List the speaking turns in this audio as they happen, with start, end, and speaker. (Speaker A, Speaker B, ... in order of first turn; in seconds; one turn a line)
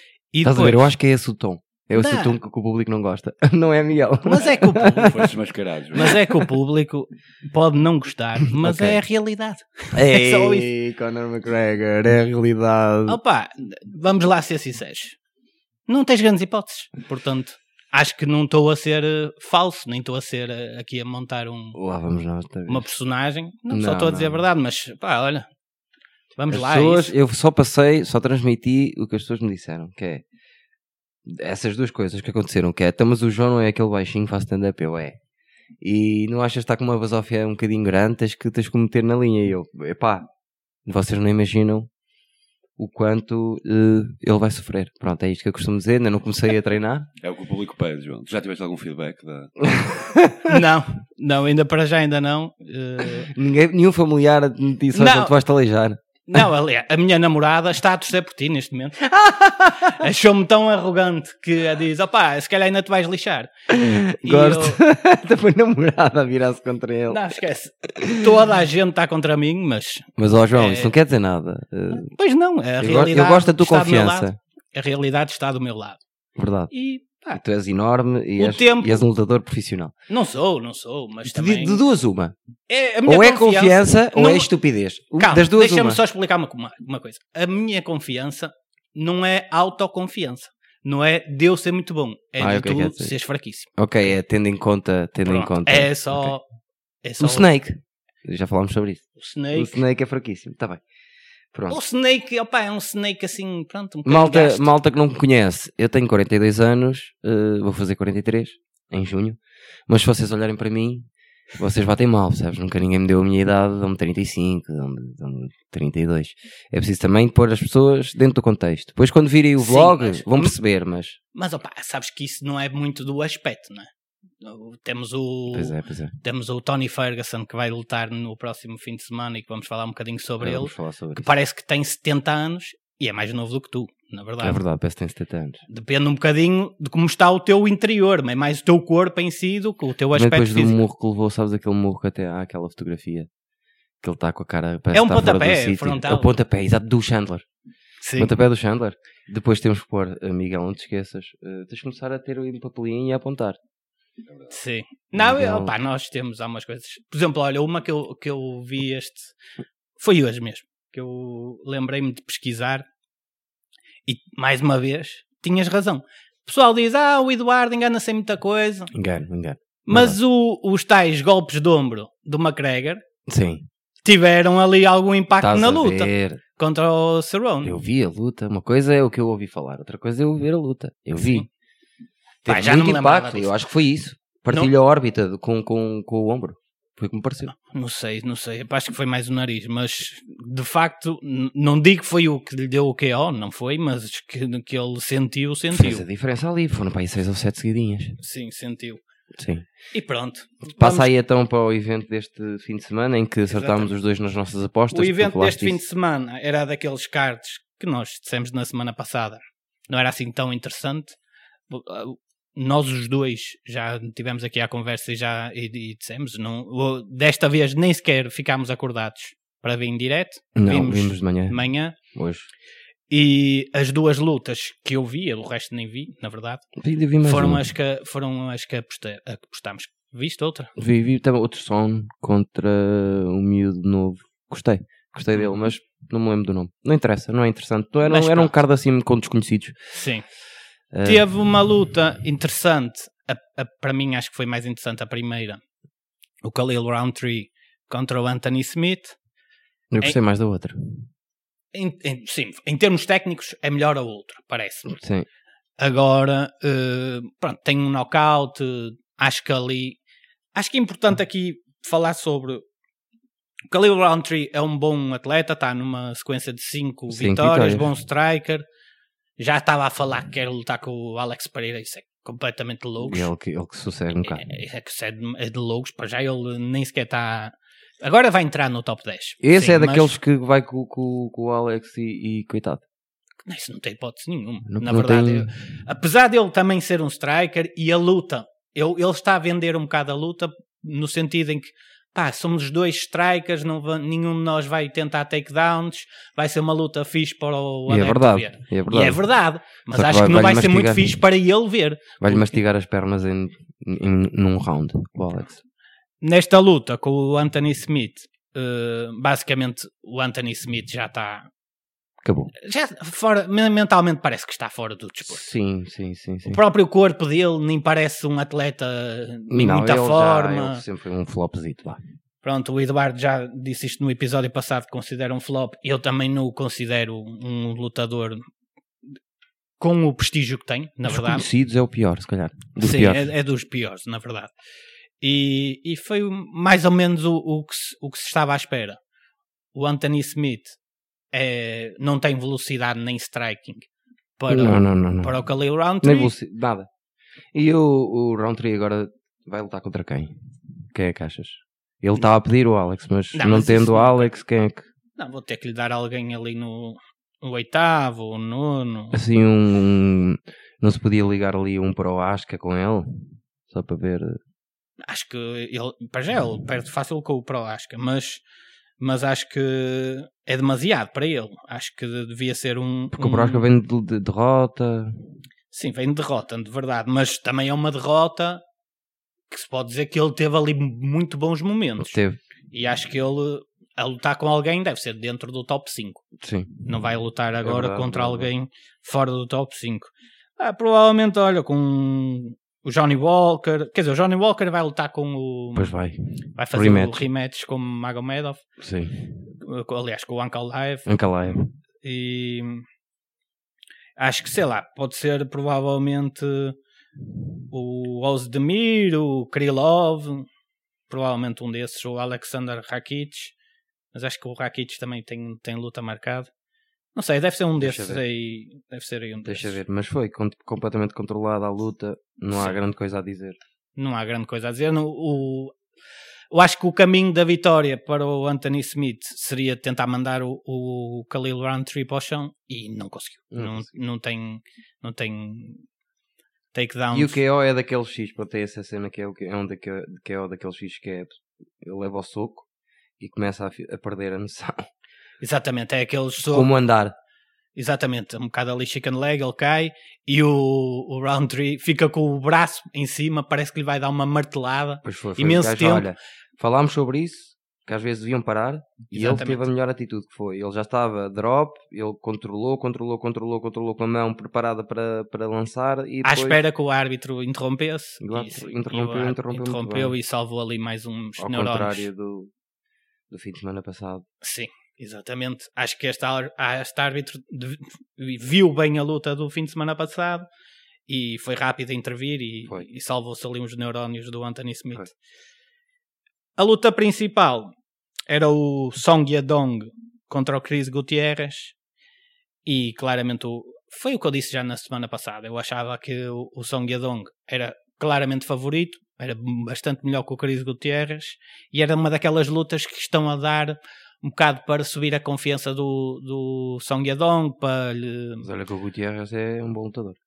Speaker A: 0.3-0.9
Speaker B: 0.4-5.3
Speaker A: 2.0-2.4
Speaker A: 4.2-5.3
Speaker C: 5.1-6.1
Speaker A: 5.9-10.7
Speaker B: 6.0-6.5
Speaker B: 8.6-9.0
Speaker B: 9.9-13.2
Speaker A: 13.1-15.2
Speaker A: 15.9-21.8
Speaker B: 21.7-22.9
Speaker A: 22.7-25.5
Speaker B: 23.7-24.4
Speaker A: 26.4-27.1
Speaker B: 26.5-30.2
Speaker B: 31.3-35.2
Speaker B: 35.8-40.3
Speaker B: 40.9-41.9
Speaker B: 42.8-47.1
Speaker C: 47.2-49.7
Speaker B: 49.6-50.6
Speaker A: 50.5-53.3
Speaker B: 53.2-56.5
Speaker A: 54.9-55.3
Speaker A: 56.3-63.5
Speaker B: 59.3-59.9
Speaker B: 63.7-67.2
Speaker A: 64.2-64.8
Speaker A: 67.1-70.9
Speaker B: 67.9-68.3
Speaker B: 70.2-72.1
Speaker A: 71.9-76.0
Speaker B: 72.8-74.4
Speaker B: 76.4-76.7
Speaker A: 76.7-77.4
Speaker B: 77.3-79.9
Speaker A: 78.4-79.1
Speaker A: 80.1-81.8
Speaker B: 81.2-82.3
Speaker A: 82.7-84.5
Speaker B: 83.1-86.0
Speaker A: 85.2-93.7
Speaker B: 92.4-93.1
Speaker B: 93.8-96.3
Speaker A: 95.2-96.4
Speaker A: 97.0-97.5
Speaker B: 97.2-100.8
Speaker A: 99.2-99.8
Speaker B: 101.5-101.8
Speaker A: 101.7-104.7
Speaker B: 104.0-121.2
Speaker A: 119.6-120.5
Speaker A: 121.3-123.9
Speaker A: 124.4-134.6
Speaker B: 125.5-126.1
Speaker B: 130.4-131.3
Speaker B: 134.4-135.6
Speaker A: 135.7-140.8
Speaker B: 140.1-143.3
Speaker B: 144.0-147.4
Speaker A: 144.9-146.3
Speaker A: 148.0-148.3
Speaker B: 148.2-153.6
Speaker A: 154.5-159.4
Speaker B: 155.2-155.7
Speaker A: 160.0-162.9
Speaker A: 164.1-168.9
Speaker B: 168.9-170.2
Speaker A: 169.9-173.0
Speaker B: 173.3-173.7
Speaker A: 174.1-177.7
Speaker B: 175.4-176.4
Speaker B: 177.6-181.5
Speaker A: 181.2-181.5
Speaker B: 182.4-187.5
Speaker A: 182.5-183.5
Speaker A: 187.6-196.1
Speaker B: 195.7-198.2
Speaker A: 198.2-199.0
Speaker B: 199.3-199.7
Speaker A: 199.9-201.1
Speaker B: 200.7-205.8
Speaker A: 203.5-203.9
Speaker A: 204.9-211.2
Speaker A: 211.7-222.0
Speaker B: 220.6-221.6
Speaker B: 222.1-222.5
Speaker A: 223.1-226.7
Speaker B: 226.8-227.6
Speaker A: 227.2-230.7
Speaker B: 230.8-239.8
Speaker A: 238.1-238.5
Speaker A: 239.9-240.2
Speaker B: 240.9-241.2
Speaker A: 241.0-245.6
Speaker A: 246.4-249.2
Speaker B: 249.9-251.1
Speaker A: 251.7-254.9
Speaker B: 254.9-255.3
Speaker A: 255.8-260.0
Speaker A: 260.6-262.6
Speaker A: 263.7-268.6
Speaker B: 267.1-267.9
Speaker A: 269.4-273.3
Speaker B: 273.0-274.5
Speaker A: 274.3-280.1
Speaker B: 279.4-282.8
Speaker A: 283.5-302.6
Speaker B: 284.7-285.5
Speaker B: 297.9-299.2
Speaker B: 299.9-301.2
Speaker B: 302.2-305.6
Speaker A: 306.2-311.5
Speaker B: 312.2-312.5
Speaker A: 312.6-315.4
Speaker B: 315.2-316.6
Speaker A: 316.5-320.8
Speaker B: 319.5-322.0
Speaker A: 322.4-328.4
Speaker A: 329.8-331.4
Speaker B: 331.1-333.3
Speaker A: 332.8-334.5
Speaker A: 335.2-339.0
Speaker A: 339.7-340.8
Speaker A: 341.3-343.9
Speaker A: 344.4-346.3
Speaker B: 344.5-345.4
Speaker B: 346.0-346.9
Speaker B: 347.5-350.3
Speaker B: 350.9-354.9
Speaker A: 353.3-354.4
Speaker A: 355.2-359.2
Speaker B: 359.1-364.4
Speaker A: 365.1-368.4
Speaker A: 369.0-373.7
Speaker B: 373.1-375.2
Speaker A: 375.7-378.6
Speaker A: 379.5-382.2
Speaker B: 382.0-382.4
Speaker A: 382.7-386.2
Speaker B: 386.4-386.9
Speaker A: 386.9-395.9
Speaker B: 387.6-388.5
Speaker B: 395.8-396.2
Speaker A: 396.6-398.6
Speaker B: 396.7-397.2
Speaker B: 398.8-399.3
Speaker A: 399.6-401.1
Speaker B: 401.1-401.7
Speaker A: 402.0-402.9
Speaker A: 404.2-406.8
Speaker A: 407.7-410.5
Speaker A: 411.1-413.5
Speaker A: 414.1-416.5
Speaker A: 417.1-419.8
Speaker B: 417.8-418.2
Speaker B: 419.4-423.6
Speaker A: 422.5-422.8
Speaker A: 424.0-425.8
Speaker A: 426.5-435.9
Speaker B: 433.5-433.9
Speaker A: 436.7-437.4
Speaker B: 437.1-442.7
Speaker B: 443.2-444.9
Speaker A: 445.4-446.7
Speaker B: 446.5-447.1
Speaker A: 447.8-456.1
Speaker B: 455.0-466.6
Speaker A: 459.1-459.7
Speaker A: 466.2-472.1
Speaker B: 468.2-470.1
Speaker B: 471.4-472.5
Speaker B: 473.3-474.2
Speaker A: 474.4-480.5
Speaker A: 481.1-485.1
Speaker A: 486.6-487.7
Speaker A: 488.3-491.8
Speaker A: 492.6-508.5
Speaker B: 508.4-510.2